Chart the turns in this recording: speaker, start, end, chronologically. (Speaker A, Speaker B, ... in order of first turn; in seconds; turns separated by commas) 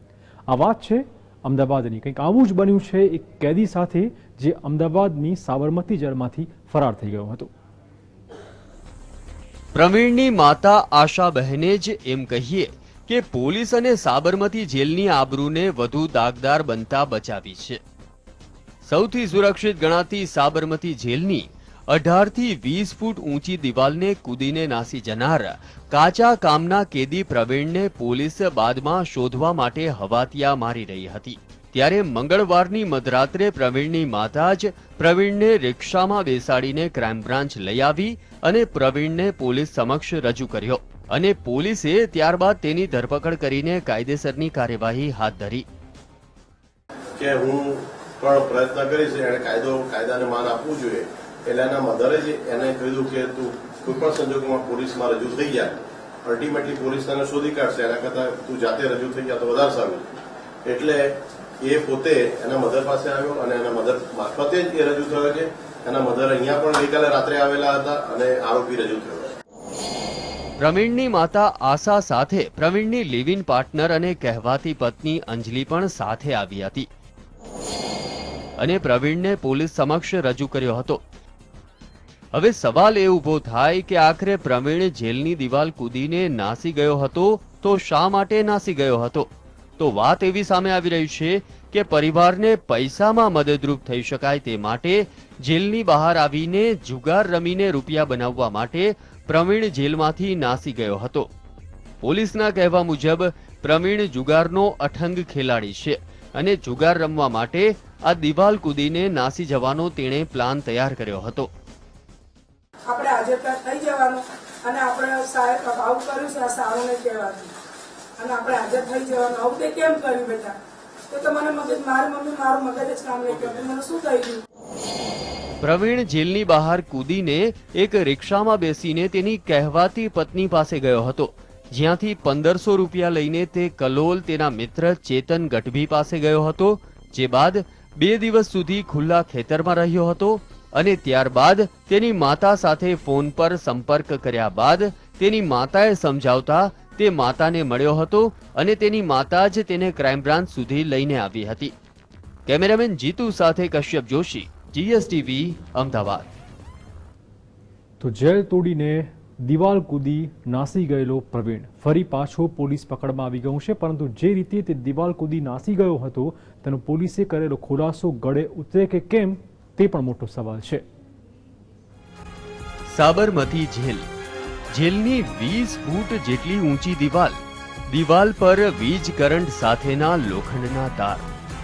Speaker A: 0.5-7.5, Speaker B: 9.8-17.8, Speaker B: 18.8-45.7, Speaker C: 47.2-60.1, Speaker C: 60.6-69.3, Speaker B: 70.6-76.9, Speaker B: 78.6-81.0, Speaker B: 82.3-101.3, Speaker B: 102.0-111.5, Speaker D: 112.9-117.5, Speaker D: 118.2-120.6, Speaker D: 121.1-124.4, Speaker B: 125.6-151.7, Speaker B: 152.5-156.3, Speaker A: 158.0-170.8, Speaker B: 172.9-174.1, Speaker B: 174.7-181.3